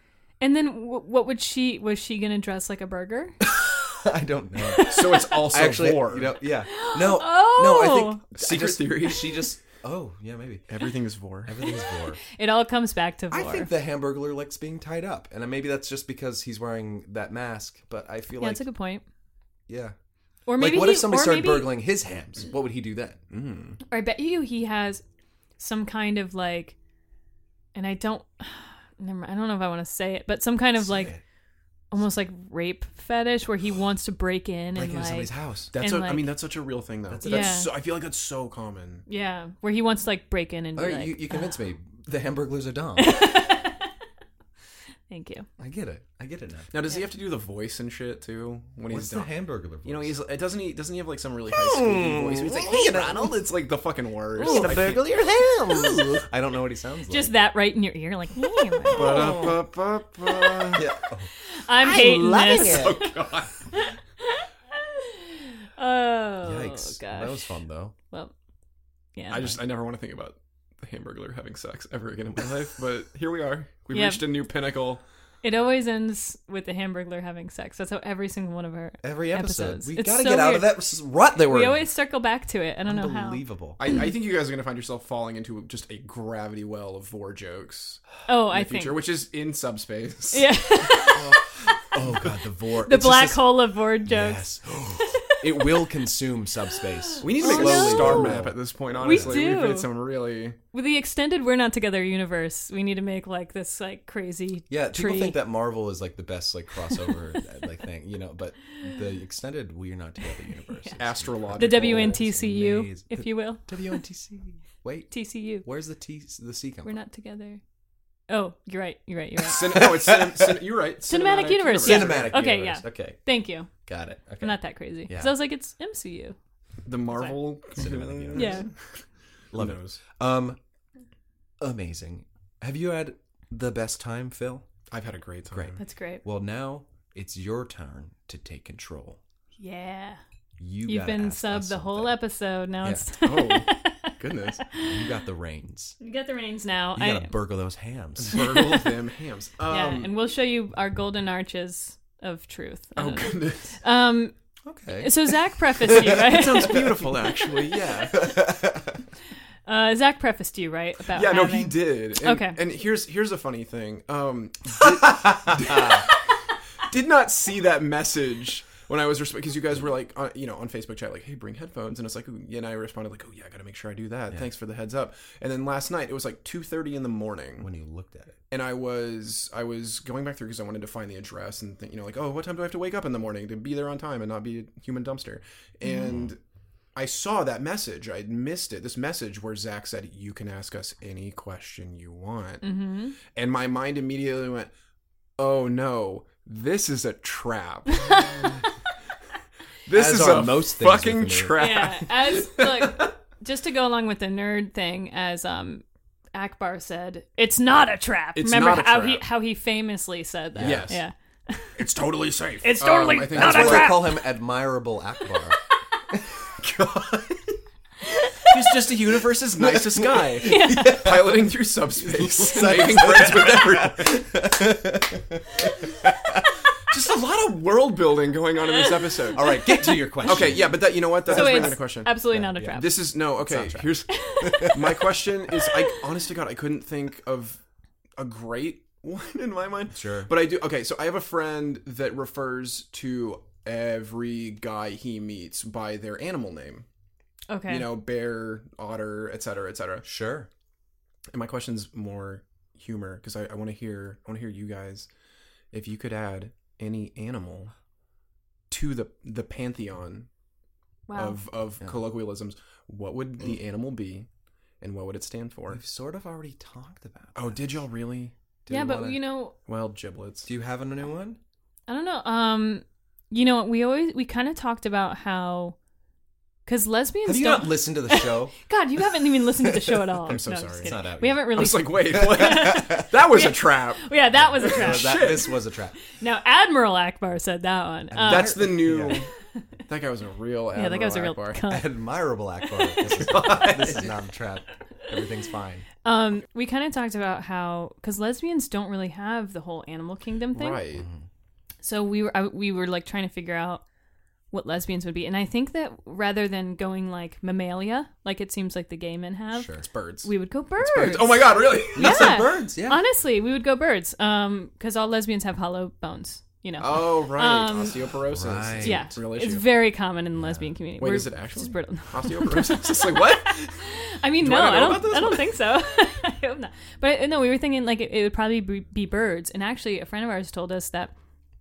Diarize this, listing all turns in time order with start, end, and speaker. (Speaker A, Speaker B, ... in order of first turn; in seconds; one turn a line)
Speaker A: 0.4-3.5
Speaker B: 3.5-10.6
Speaker A: 4.7-5.2
Speaker C: 4.9-6.3
Speaker A: 6.7-8.2
Speaker C: 8.3-9.5
Speaker C: 10.7-11.5
Speaker B: 11.4-12.2
Speaker A: 12.3-13.7
Speaker B: 13.3-18.6
Speaker A: 18.4-19.0
Speaker B: 19.7-19.9
Speaker A: 20.5-21.7
Speaker B: 20.6-23.2
Speaker C: 23.3-23.8
Speaker A: 23.9-25.0
Speaker A: 25.6-26.8
Speaker A: 27.8-31.1
Speaker B: 30.8-31.2
Speaker A: 31.9-36.3
Speaker B: 34.8-35.7
Speaker C: 35.7-39.0
Speaker B: 37.1-37.6
Speaker A: 37.2-37.7
Speaker A: 39.1-41.5
Speaker B: 40.8-43.2
Speaker A: 43.0-43.9
Speaker A: 45.1-45.5
Speaker B: 45.6-46.7
Speaker C: 46.7-55.1
Speaker B: 48.9-50.2
Speaker B: 51.5-53.4
Speaker B: 54.4-57.4
Speaker A: 57.1-59.5
Speaker B: 58.9-59.6
Speaker C: 58.9-60.9
Speaker B: 60.7-63.0
Speaker A: 61.4-67.6
Speaker C: 62.6-63.7
Speaker B: 66.4-68.0
Speaker A: 69.2-69.6
Speaker C: 69.3-75.0
Speaker A: 73.9-74.2
Speaker A: 75.4-80.8
Speaker B: 79.0-81.9
Speaker A: 81.4-84.0
Speaker B: 82.9-83.8
Speaker C: 83.8-91.1
Speaker A: 88.3-89.0
Speaker A: 90.3-91.9
Speaker B: 91.1-99.4
Speaker A: 92.8-95.9
Speaker A: 97.0-98.4
Speaker C: 97.2-100.6
Speaker A: 99.0-99.9
Speaker A: 100.7-105.4
Speaker B: 104.7-116.9
Speaker A: 110.8-111.0
Speaker C: 111.0-112.2
Speaker A: 111.6-114.0
Speaker A: 115.1-115.7
Speaker A: 116.8-117.6
Speaker A: 118.3-119.8
Speaker C: 119.5-122.4
Speaker B: 119.5-120.6
Speaker A: 121.1-123.7
Speaker B: 121.8-123.2
Speaker B: 123.8-125.3
Speaker A: 124.4-126.4
Speaker C: 126.9-128.7
Speaker A: 127.1-127.4
Speaker B: 127.8-128.7
Speaker A: 128.3-128.7
Speaker B: 129.5-130.6
Speaker C: 129.5-130.0
Speaker B: 131.6-134.7
Speaker C: 134.9-135.8
Speaker B: 135.5-139.2
Speaker A: 135.8-136.2
Speaker A: 139.6-140.2
Speaker B: 140.6-142.2
Speaker A: 140.9-145.0
Speaker C: 143.2-144.6
Speaker B: 144.7-146.0
Speaker A: 146.0-147.3
Speaker B: 146.9-148.8
Speaker C: 148.2-150.1
Speaker A: 148.4-148.8
Speaker A: 149.7-154.3
Speaker C: 153.0-153.8
Speaker B: 154.7-156.2
Speaker A: 154.9-156.8
Speaker C: 155.9-158.3
Speaker B: 156.7-157.0
Speaker B: 158.1-159.0
Speaker A: 159.7-162.6
Speaker C: 161.1-166.1
Speaker B: 164.8-166.1
Speaker C: 166.9-177.7
Speaker B: 177.6-178.4
Speaker C: 178.5-186.4
Speaker A: 185.8-186.1
Speaker C: 186.9-194.7
Speaker A: 192.6-193.2
Speaker C: 195.4-198.5
Speaker A: 198.0-198.6
Speaker C: 199.9-202.7
Speaker B: 199.9-201.8
Speaker A: 201.6-211.9
Speaker C: 208.4-209.2
Speaker B: 210.6-210.9
Speaker C: 210.6-211.0
Speaker C: 211.8-214.0
Speaker A: 212.6-214.3
Speaker B: 213.3-215.6
Speaker B: 216.1-217.3
Speaker C: 216.6-217.2
Speaker A: 218.1-218.5
Speaker C: 218.4-224.3
Speaker B: 219.6-226.6
Speaker A: 220.4-221.0
Speaker C: 226.9-237.6
Speaker A: 228.7-230.6
Speaker B: 229.3-231.8
Speaker A: 231.3-233.1
Speaker B: 232.3-232.8
Speaker B: 233.4-235.1
Speaker A: 234.1-234.9
Speaker A: 235.6-235.9
Speaker C: 238.2-246.9
Speaker B: 239.9-240.3
Speaker A: 247.5-247.9
Speaker C: 247.7-250.1
Speaker B: 250.0-250.5
Speaker C: 251.3-255.1
Speaker C: 255.7-257.7
Speaker C: 258.7-260.3
Speaker A: 261.1-261.4
Speaker C: 261.1-264.3
Speaker C: 264.8-265.8
Speaker B: 265.7-267.8
Speaker C: 267.4-268.3
Speaker B: 268.7-269.2
Speaker A: 268.7-269.6
Speaker C: 269.7-270.5
Speaker B: 270.5-271.4
Speaker A: 271.9-275.8
Speaker A: 276.7-285.5
Speaker B: 277.3-278.6
Speaker C: 280.1-285.6
Speaker B: 280.9-283.1
Speaker B: 284.4-286.0
Speaker A: 286.2-288.8
Speaker B: 288.1-289.2
Speaker C: 288.2-289.3
Speaker C: 289.9-291.6
Speaker A: 290.8-291.9
Speaker B: 291.7-295.9
Speaker A: 292.6-293.9
Speaker C: 293.1-294.2
Speaker A: 296.0-300.8
Speaker C: 300.5-301.1
Speaker B: 300.9-301.3
Speaker A: 301.8-303.8
Speaker A: 304.5-318.0
Speaker B: 309.5-309.8
Speaker C: 309.8-312.4
Speaker B: 311.9-313.0
Speaker C: 316.8-319.7
Speaker B: 318.3-319.1
Speaker A: 318.8-331.1
Speaker B: 320.4-320.7
Speaker C: 321.0-325.5